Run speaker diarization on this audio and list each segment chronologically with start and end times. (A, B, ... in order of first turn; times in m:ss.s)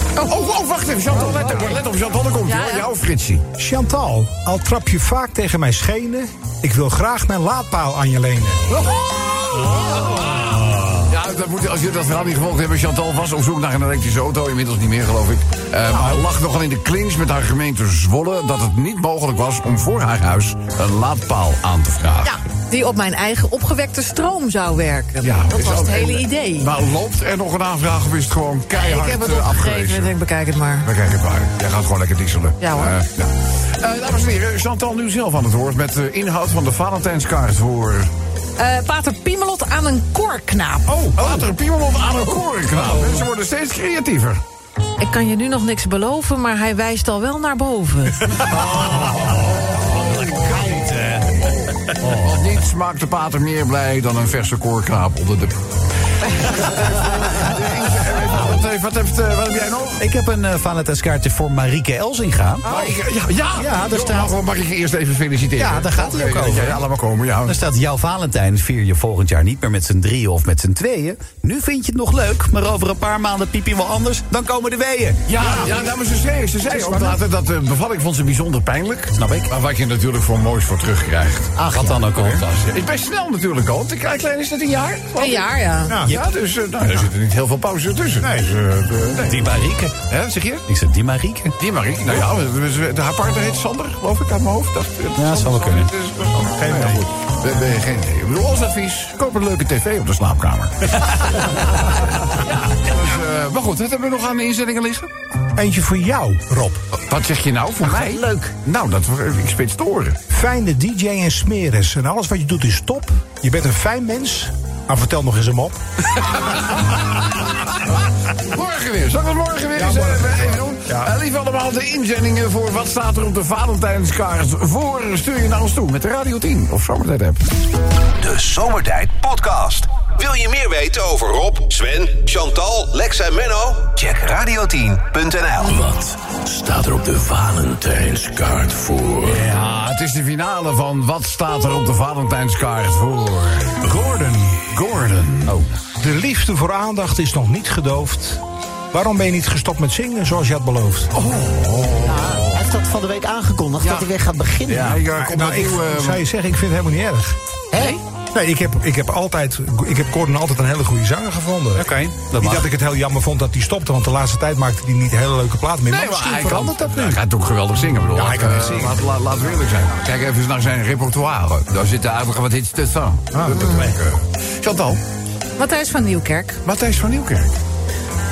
0:00.2-0:03.4 A
0:01.2-0:01.7 B
0:02.4-0:02.9 B
0:03.6-0:08.6 C
0:08.7-0:22.4 A
0:15.9-0:16.2 C
0:22.2-0:26.7 B
0:25.2-0:30.1 A
0:28.7-0:30.9 B
0:30.8-0:38.1 A
0:32.6-0:33.0 B
0:38.6-0:41.0 B
0:40.9-0:41.4 C
0:41.2-0:44.4 A
0:45.0-0:48.4 B
0:50.1-0:51.2 D
0:50.3-0:50.8 A
0:50.5-0:50.9 E
0:52.0-0:55.5 A
0:56.3-1:00.0 A
1:00.0-1:02.9 D
1:02.6-1:07.6 A
1:03.6-1:04.3 D
1:05.6-1:06.8 D
1:07.4-1:15.6 D
1:15.3-1:25.5 A
1:16.7-1:17.2 C
1:19.2-1:19.5 D
1:21.6-1:22.4 D
1:21.6-1:22.0 E
1:25.2-1:26.0 B
1:25.9-1:26.2 C
1:26.1-1:30.6 A
1:28.2-1:28.5 C
1:29.2-1:30.0 D
1:30.7-1:31.5 D
1:31.6-1:45.1 A
1:35.2-1:35.9 D
1:36.6-1:37.0 C
1:45.6-1:46.8 C
1:47.0-1:50.2 A
1:47.8-1:48.5 E
1:50.3-1:55.8 C
1:56.2-1:57.8 A
1:58.5-2:07.5 A
1:59.8-2:01.1 C
2:08.2-2:15.7 F
2:15.6-2:19.5 G
2:19.2-2:23.8 A
2:23.8-2:24.6 C
2:24.7-2:25.6 A
2:26.0-2:28.4 C
2:28.9-2:31.1 C
2:31.1-2:32.4 A
2:32.0-2:35.0 E
2:33.8-2:34.1 A
2:34.7-2:36.2 A
2:35.1-2:37.4 C
2:37.7-2:38.0 E
2:38.3-2:47.2 C
2:41.8-2:42.6 D
2:45.9-2:55.0 A
2:48.1-2:49.0 C
2:53.3-2:53.9 C
2:55.6-2:56.6 B
2:56.6-2:57.5 A